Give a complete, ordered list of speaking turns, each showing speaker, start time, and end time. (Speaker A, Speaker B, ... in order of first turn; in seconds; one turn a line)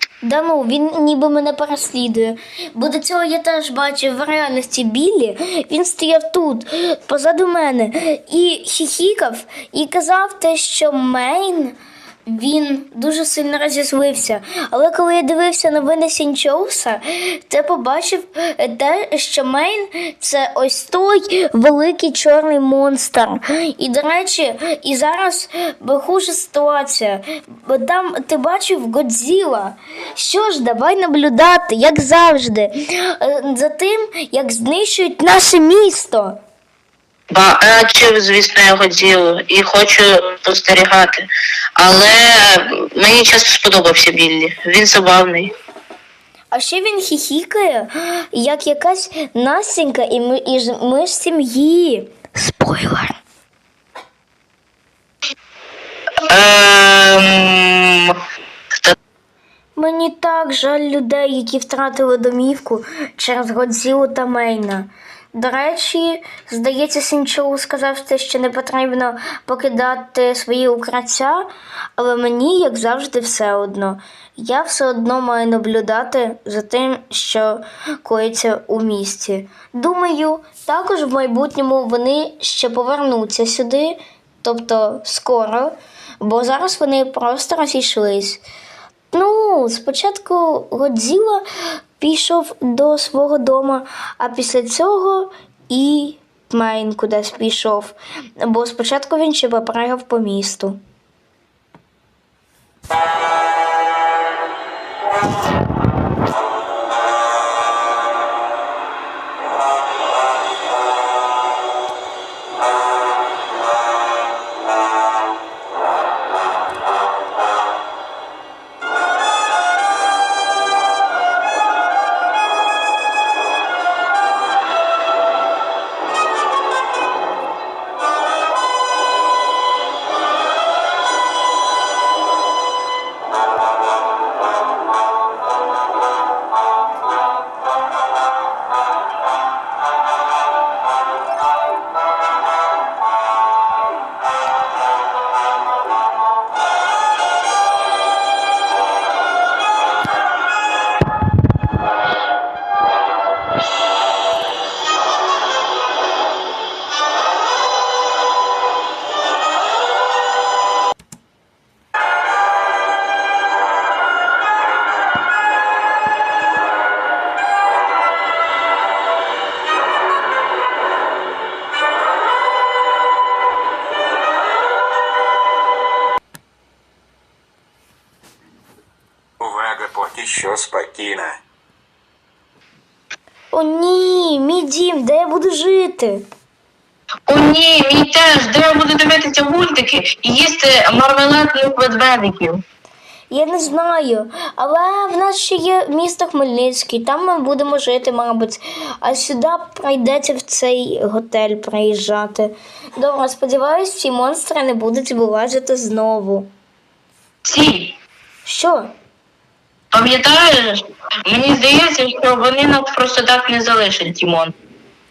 Speaker A: 0.2-36.4
Speaker B: 37.3-45.5
Speaker A: 46.5-53.2
Speaker B: 56.3-58.2
Speaker A: 59.8-88.4
Speaker A: 89.1-91.5
Speaker A: 92.0-100.8
Speaker C: 179.4-181.4
Speaker A: 183.5-186.3
Speaker B: 187.3-192.6
Speaker A: 193.3-206.5
Speaker B: 207.4-208.0
Speaker A: 208.4-208.9
Speaker B: 209.9-214.5